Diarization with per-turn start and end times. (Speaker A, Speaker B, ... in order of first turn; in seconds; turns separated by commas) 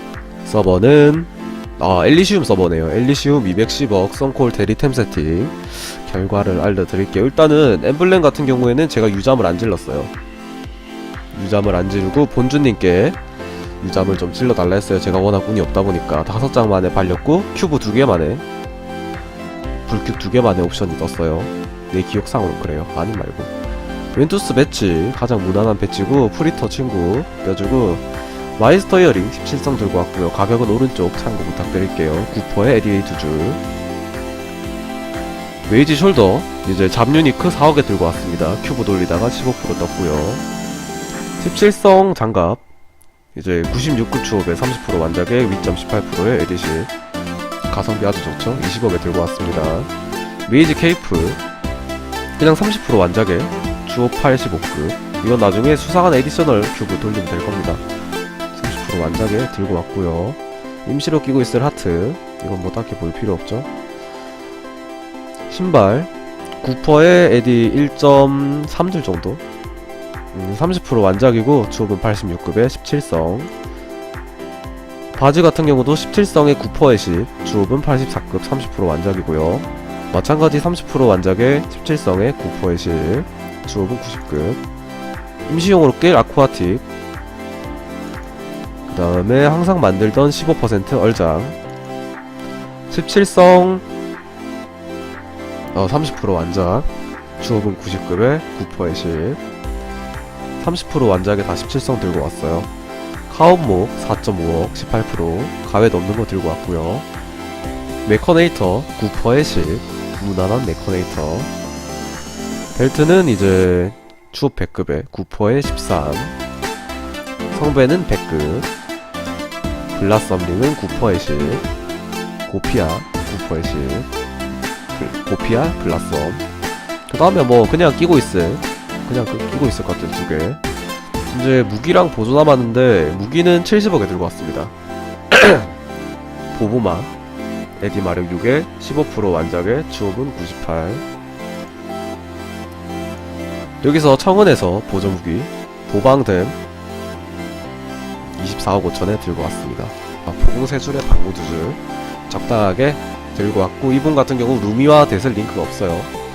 Speaker A: 0.4-10.1, Speaker A: 11.3-13.2, Speaker A: 13.8-18.4, Speaker A: 19.9-23.5, Speaker A: 24.1-33.6, Speaker A: 35.7-40.5, Speaker A: 41.4-42.6, Speaker A: 43.4-46.9, Speaker A: 47.7-49.9, Speaker A: 50.5-51.4, Speaker A: 52.4-57.8, Speaker A: 58.5-63.7, Speaker A: 65.5-69.4, Speaker A: 70.3-73.5, Speaker A: 75.1-84.6, Speaker A: 85.5-86.8, Speaker A: 88.9-91.6, Speaker A: 92.9-93.8, Speaker A: 95.7-96.9, Speaker A: 97.4-99.4, Speaker A: 100.6-102.7, Speaker A: 103.3-107.1, Speaker A: 108.0-111.5, Speaker A: 112.8-116.4, Speaker A: 117.5-118.7, Speaker A: 119.9-121.6, Speaker A: 122.5-124.1, Speaker A: 124.9-126.4, Speaker A: 127.1-130.6, Speaker A: 131.3-134.7, Speaker A: 135.3-135.7, Speaker A: 136.5-137.1, Speaker A: 137.8-141.1, Speaker A: 143.8-146.6, Speaker A: 148.3-156.1